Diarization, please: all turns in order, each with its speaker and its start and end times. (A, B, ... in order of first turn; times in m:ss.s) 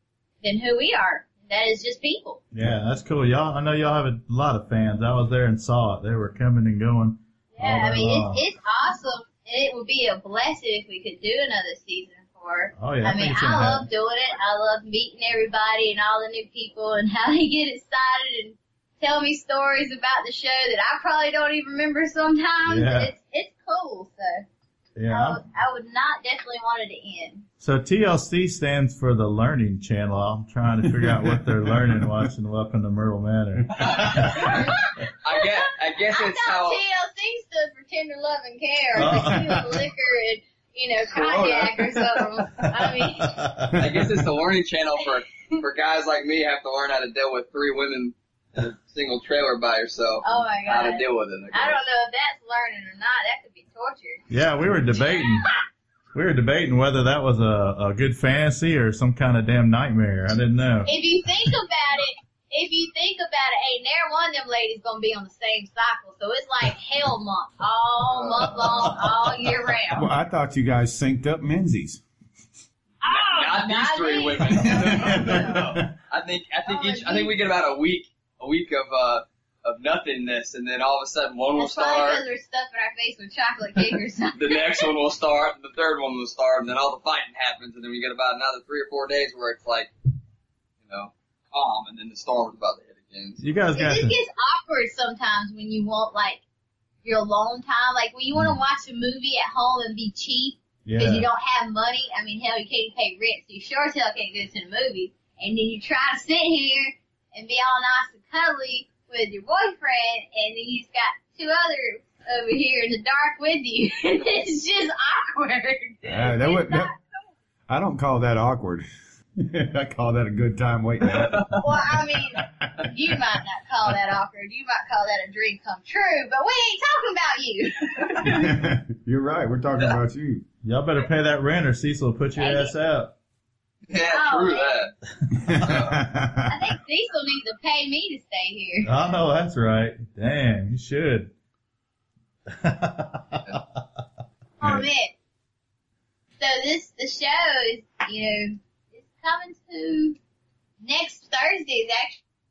0:00.4-0:02.4 A
0:02.5-0:08.4 B
0:07.5-0:24.4 A
0:12.8-0:13.9 B
0:22.6-0:23.1 B
0:25.0-0:25.4 B
0:25.1-0:27.5 A
0:27.6-0:34.6 B
0:30.8-0:32.3 C
0:33.7-0:34.0 C
0:33.8-0:34.7 D
0:34.2-0:43.4 A
0:35.2-0:36.8 D
0:39.0-0:39.8 B
0:41.2-0:41.6 C
0:43.2-0:43.8 B
0:43.7-0:44.2 C
0:43.7-0:51.8 D
0:50.2-0:54.2 A
0:54.3-0:55.4 B
0:54.9-0:55.6 A
0:56.1-1:00.9 B
1:00.8-1:10.1 A
1:08.1-1:08.6 D
1:09.9-1:12.0 C
1:13.0-1:15.6 A
1:13.0-1:22.2 D
1:14.5-1:15.9 C
1:16.7-1:17.3 A
1:21.6-1:24.9 A
1:24.3-1:29.9 D
1:30.8-1:33.4 D
1:33.4-1:34.2 B
1:33.7-1:36.4 A
1:37.0-1:57.2 A
1:40.8-1:41.3 B
1:56.0-1:56.9 C
1:57.7-1:58.8 C
1:59.4-2:02.9 C
2:01.1-2:01.6 D
2:01.6-2:08.5 A
2:08.2-2:10.4 C
2:10.6-2:13.1 B
2:12.4-2:12.7 A
2:13.9-2:14.9 D
2:14.0-2:14.8 A
2:15.3-2:16.5 C
2:15.6-2:16.0 D
2:16.5-2:18.9 A
2:18.8-2:21.3 B
2:22.5-2:23.8 B
2:24.6-2:25.1 A
2:26.4-2:30.2 A
2:30.8-2:32.2 A